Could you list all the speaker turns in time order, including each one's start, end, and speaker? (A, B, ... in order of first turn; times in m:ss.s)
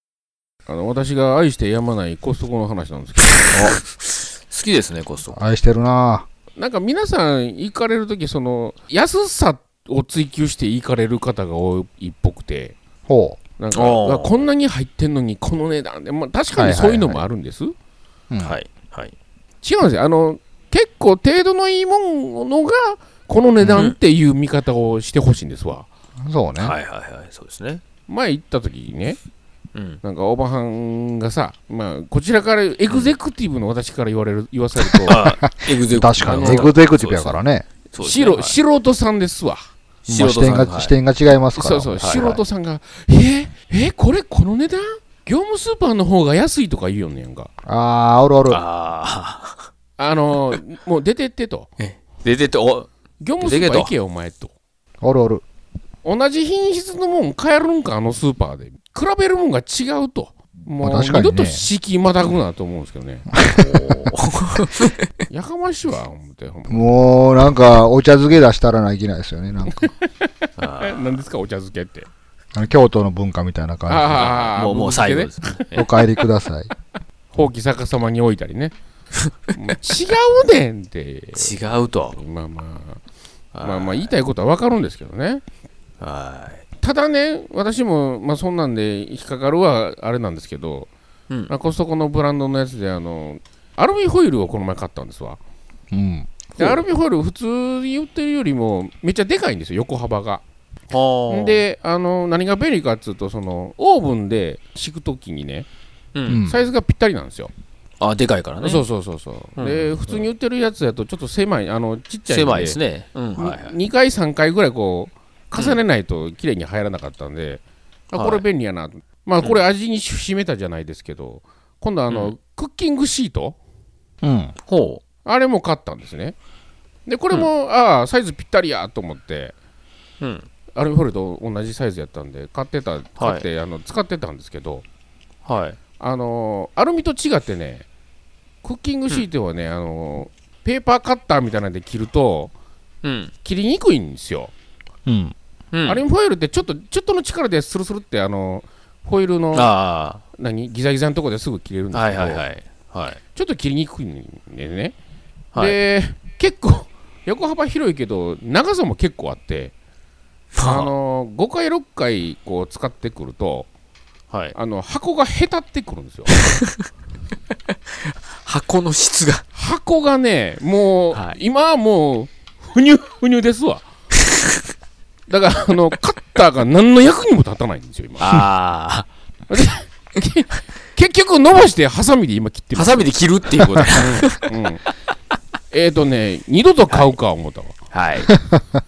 0:00.6-0:03.8 A
0:03.5-0:05.4 B
0:05.3-0:06.3 C
0:06.6-0:12.8 A
0:13.1-0:13.4 C
0:13.6-0:17.7 A
0:13.7-0:14.4 B
0:16.6-0:17.2 C
0:18.3-0:18.6 C
0:18.4-0:19.1 B
0:19.6-0:25.9 A
0:26.2-0:26.8 C
0:26.6-0:27.8 B
0:28.1-0:29.2 A
0:29.8-0:30.0 B
0:30.0-0:35.3 A
0:35.0-0:37.4 B
0:35.4-0:37.7 C
0:36.2-0:36.7 A
0:37.9-0:38.6 B
0:38.0-0:39.6 A
0:40.1-0:41.0 B
0:40.1-0:42.4 C
0:41.5-0:47.5 A
0:42.0-0:42.4 B
0:47.6-0:48.6 C
0:48.5-0:49.6 B
0:50.0-0:51.7 A
0:51.8-0:52.9 B
0:53.2-0:54.5 A
0:53.4-0:53.9 B
0:55.0-0:55.4 C
0:56.0-1:03.3 A
1:00.8-1:01.7 C
1:03.3-1:03.9 C
1:03.6-1:05.1 B
1:05.3-1:07.0 A
1:06.7-1:09.9 C
1:09.7-1:10.2 A
1:10.6-1:11.2 B
1:10.8-1:12.1 A
1:12.5-1:14.3 C
1:13.9-1:15.8 A
1:14.1-1:15.9 B
1:15.7-1:16.7 C
1:17.3-1:18.8 A
1:19.5-1:21.6 A
1:21.4-1:22.2 B
1:22.1-1:23.0 A
1:23.5-1:24.1 B
1:23.6-1:25.4 A
1:26.0-1:26.6 B
1:26.8-1:30.9 A
1:31.5-1:35.4 A
1:35.9-1:36.5 C
1:36.6-1:40.4 A
1:40.9-1:41.6 B
1:41.3-1:45.7 A
1:46.1-1:46.4 B
1:46.3-1:46.6 C
1:46.3-1:47.5 A
1:48.0-1:48.8 B
1:48.6-1:52.8 A
1:49.6-1:50.0 B
1:52.3-1:53.8 B
1:53.4-2:03.6 A
1:55.5-1:55.8 B
1:58.1-1:58.4 B
2:02.1-2:02.3 B
2:04.2-2:04.6 C
2:04.6-2:05.0 B
2:05.2-2:06.4 A
2:07.0-2:09.5 A
2:10.2-2:10.5 B
2:10.8-2:14.8 A
2:13.2-2:13.5 B
2:15.5-2:15.8 B
2:16.0-2:17.9 A
2:18.6-2:22.5 A
2:23.0-2:23.3 B
2:23.4-2:24.5 A
2:25.1-2:25.3 C
2:25.7-2:26.0 B
2:25.8-2:29.7 A
2:29.5-2:30.2 B
2:30.3-2:32.4 A
2:31.9-2:33.2 B
2:33.3-2:35.0 A
2:35.6-2:39.7 A
2:40.6-2:40.9 B
2:40.6-2:43.7 A
2:44.6-2:46.4 A
2:48.4-2:49.4 B
2:49.5-2:53.8 A
2:51.1-2:51.4 B
2:55.3-2:58.5 A
2:58.2-2:59.1 B
2:59.5-3:03.1 A
3:02.7-3:04.5 B
3:03.9-3:04.8 A
3:05.7-3:07.8 A
3:06.9-3:07.1 B
3:07.9-3:08.3 B
3:08.3-3:08.6 C